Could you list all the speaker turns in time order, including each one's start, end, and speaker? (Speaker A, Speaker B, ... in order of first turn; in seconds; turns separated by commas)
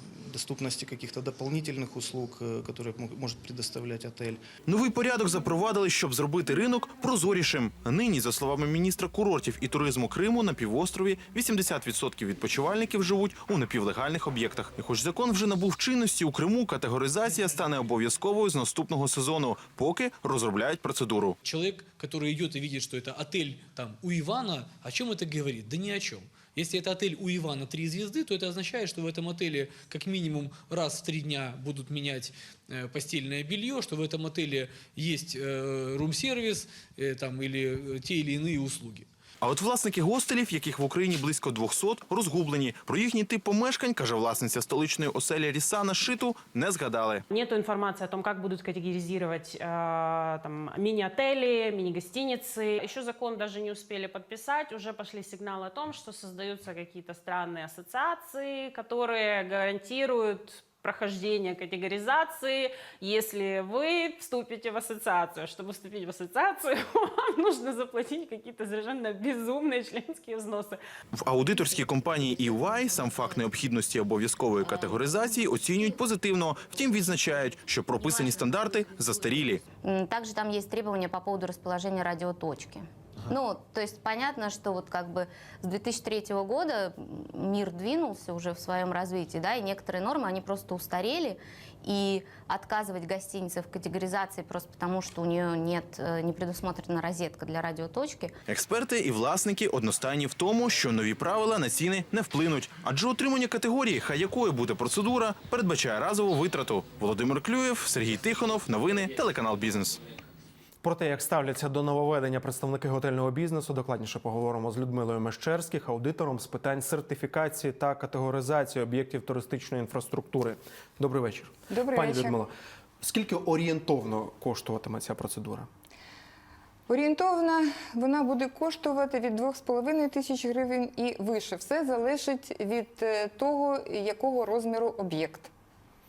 Speaker A: 0.3-4.4, Speaker B: 4.7-21.4, Speaker C: 21.4-39.1, Speaker B: 39.4-47.2, Speaker D: 47.3-70.8, Speaker B: 71.2-79.7, Speaker E: 79.8-98.3, Speaker B: 98.5-110.0, Speaker F: 110.8-125.7, Speaker G: 121.7-122.4, Speaker G: 126.9-135.5